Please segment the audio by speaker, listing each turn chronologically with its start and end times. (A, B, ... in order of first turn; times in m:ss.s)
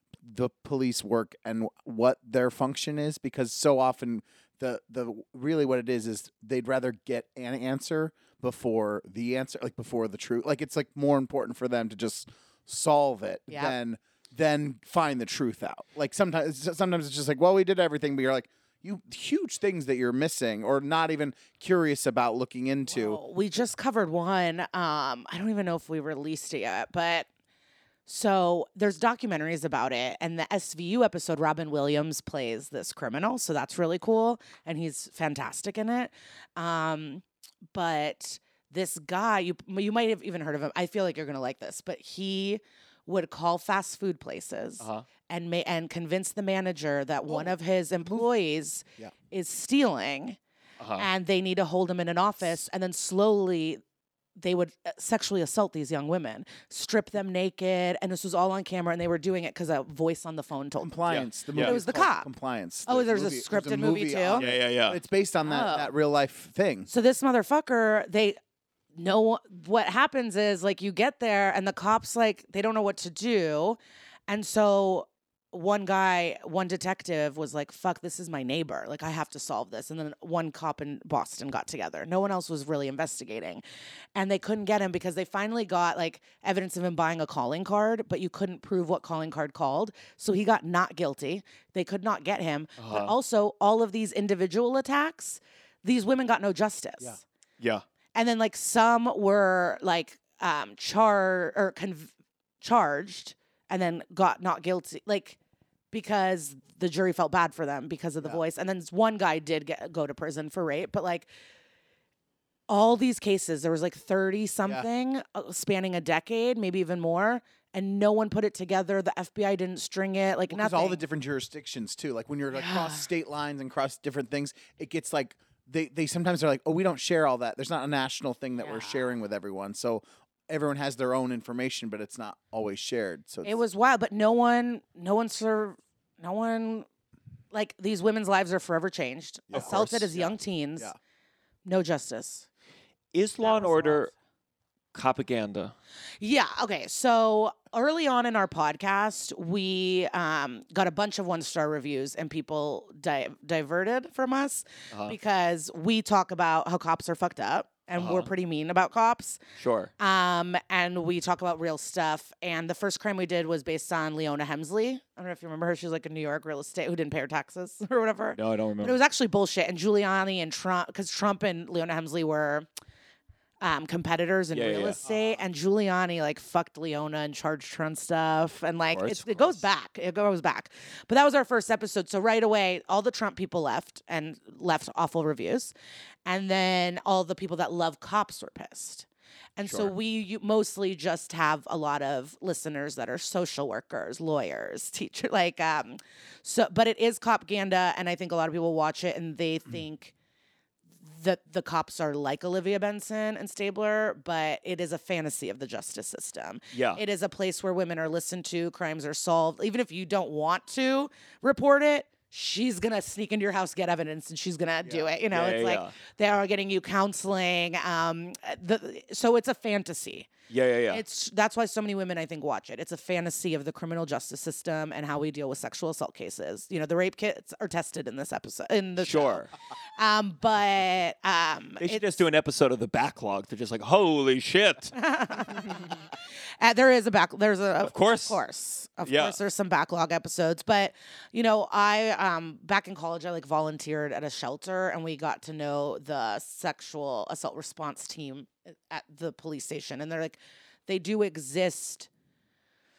0:00.2-0:23.2 A
0:13.5-0:13.8 B
0:22.9-0:27.3 B
0:28.1-0:50.4 B
0:44.8-0:45.1 C
0:47.3-0:47.5 A
0:50.8-0:51.1 C
0:51.0-0:53.8 B
0:54.4-1:01.0 B
1:00.8-1:06.9 A
1:01.1-1:01.8 C
1:01.6-1:02.3 B
1:02.9-1:04.4 B
1:04.4-1:05.0 C
1:05.5-1:05.9 B
1:06.9-1:08.4 B
1:09.0-1:23.6 B
1:24.2-1:37.2 B
1:32.8-1:33.1 C
1:37.6-1:37.8 C
1:38.2-1:45.4 B
1:45.9-1:51.3 B
1:52.7-2:01.0 B
2:00.5-2:13.6 A
2:02.5-2:03.1 B
2:08.6-2:09.0 B
2:13.4-2:16.9 B
2:17.5-2:20.9 B
2:19.5-2:21.0 A
2:19.5-2:20.1 C
2:21.6-2:22.5 B
2:23.1-2:24.1 C
2:23.4-2:24.1 B
2:24.9-2:25.7 C
2:26.2-2:39.4 B
2:38.0-2:38.3 C
2:39.6-2:39.9 C
2:40.0-2:52.7 B
2:48.4-2:49.0 C
2:53.6-3:05.7 B
2:54.5-2:55.0 C
2:55.0-2:55.4 A
2:58.9-2:59.6 A
3:06.3-3:09.1 B
3:09.6-3:20.1 B
3:09.7-3:09.9 A
3:21.0-3:40.3 B
3:26.7-3:27.0 C
3:34.8-3:35.1 A
3:35.3-3:35.9 C
3:40.5-3:41.0 C
3:40.9-3:52.2 B
3:49.0-3:49.5 C
3:51.8-3:54.9 C
3:54.9-3:55.9 B
3:56.6-4:12.1 B
3:57.8-3:58.4 C
3:59.0-3:59.4 C